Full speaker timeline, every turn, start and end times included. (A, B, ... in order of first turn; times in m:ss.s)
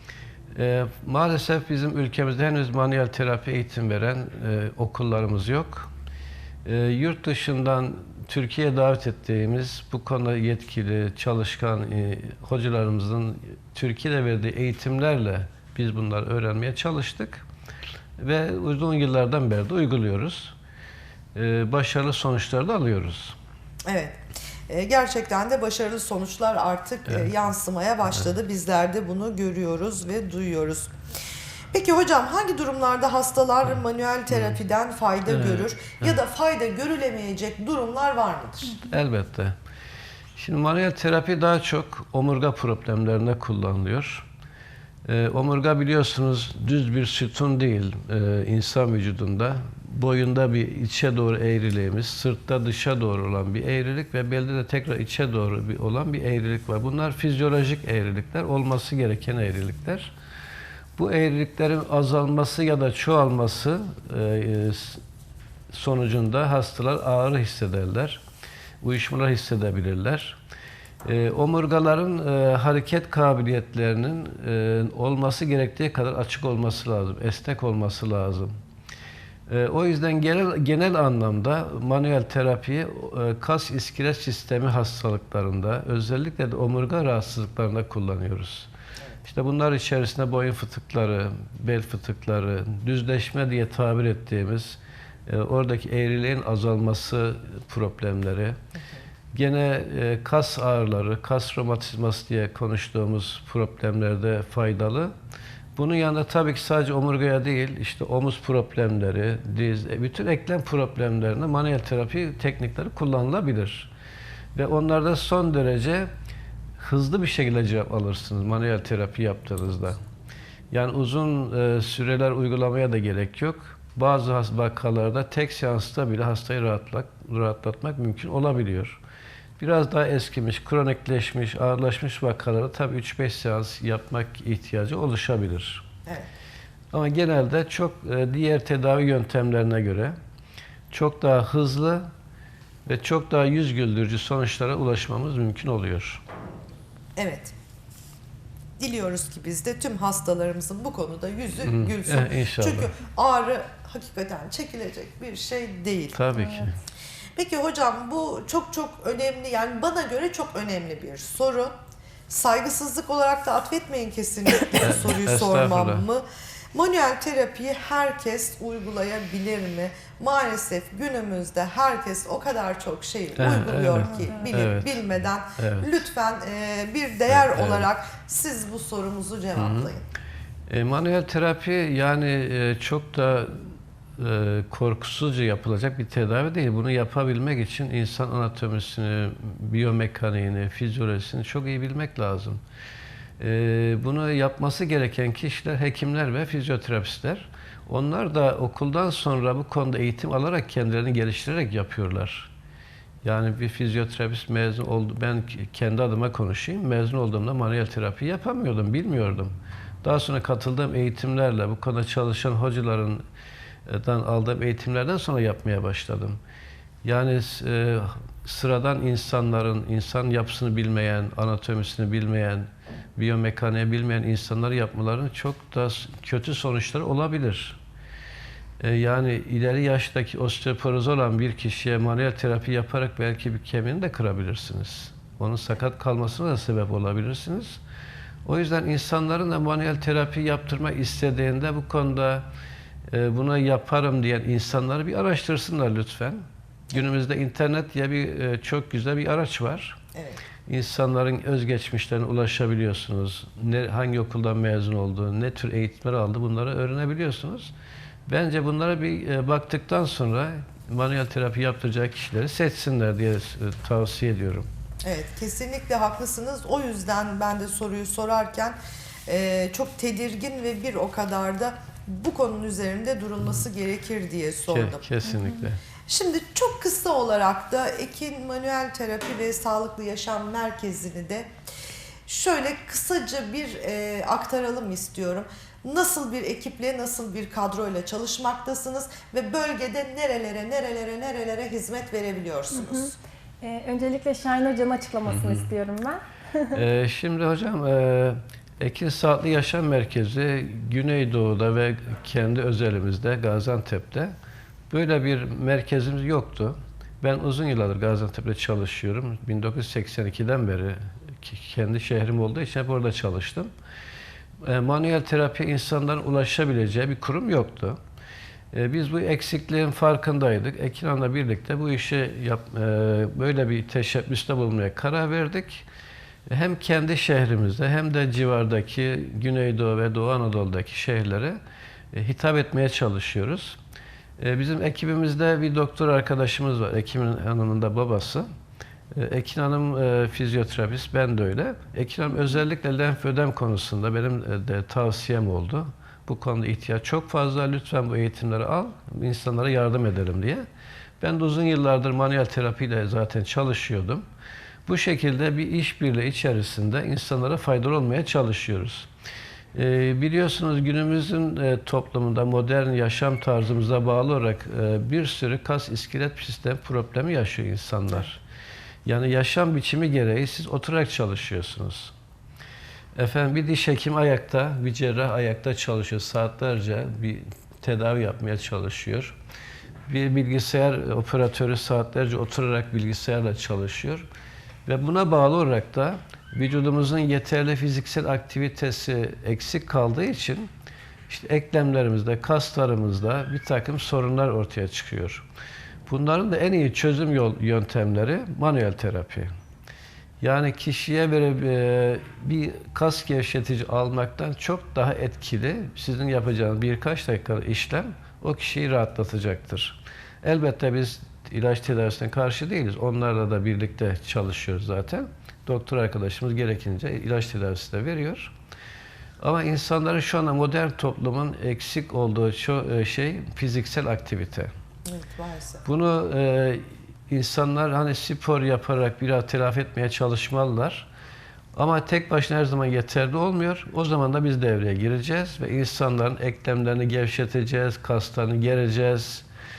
0:00.5-0:05.9 A
0:06.6-0:17.4 A
0:18.2-0:20.6 A
0:21.4-0:23.4 A
0:23.9-0:30.9 B
0:31.7-0:38.8 B
0:34.3-0:34.6 A
0:35.3-0:36.2 A
0:38.8-0:39.6 A
0:40.4-0:44.2 A
0:45.0-1:00.1 A
1:01.0-1:05.0 A
1:05.7-1:08.2 A
1:08.8-1:10.4 A
1:11.0-1:18.5 A
1:19.5-1:28.7 A
1:29.2-1:38.6 A
1:38.7-1:39.0 B
1:39.3-1:45.1 A
1:45.8-1:53.9 A
1:54.6-1:56.1 A
1:56.8-2:00.0 A
2:00.7-2:09.0 A
2:09.6-2:15.8 A
2:16.9-2:20.1 A
2:20.9-2:22.1 A
2:22.9-2:26.2 A
2:27.2-2:27.5 B
2:28.8-2:36.2 B
2:31.6-2:32.9 A
2:36.1-2:36.8 A
2:37.4-2:41.7 B
2:42.3-3:00.0 B
2:44.8-2:46.0 A
2:53.4-2:55.0 A
2:55.6-2:55.9 A
2:57.3-2:57.9 A
2:59.6-2:59.9 A
3:00.7-3:12.6 A
3:13.4-3:22.5 A
3:23.2-3:29.5 A
3:30.0-3:33.2 A
3:33.9-3:36.4 A
3:37.0-3:47.8 A
3:48.8-3:57.8 A
3:58.4-4:02.4 A
4:03.1-4:10.0 A
4:10.1-4:10.4 B
4:10.7-4:17.7 A
4:18.3-4:24.7 A
4:25.0-4:35.1 B
4:34.7-4:35.8 A
4:36.1-4:41.5 B
4:42.2-4:53.2 B
4:52.7-4:53.1 C
4:53.6-4:56.8 C
4:55.3-4:55.6 A
4:56.7-5:04.3 A
5:04.9-5:13.7 A
5:14.6-5:18.0 A
5:18.7-5:25.9 A
5:26.5-5:31.6 A
5:32.1-5:33.8 A
5:34.4-5:38.5 A
5:39.1-5:50.6 A
5:51.2-5:54.2 A
5:54.9-5:59.1 A
5:59.7-6:08.4 A
6:09.0-6:12.1 A
6:13.2-6:19.4 A
6:20.1-6:24.2 A
6:24.9-6:30.7 A
6:31.3-6:35.4 A
6:36.1-6:39.5 A
6:40.4-6:58.5 A
6:59.4-7:04.7 A
7:05.1-7:05.9 B
7:05.9-7:11.1 A
7:11.7-7:19.4 A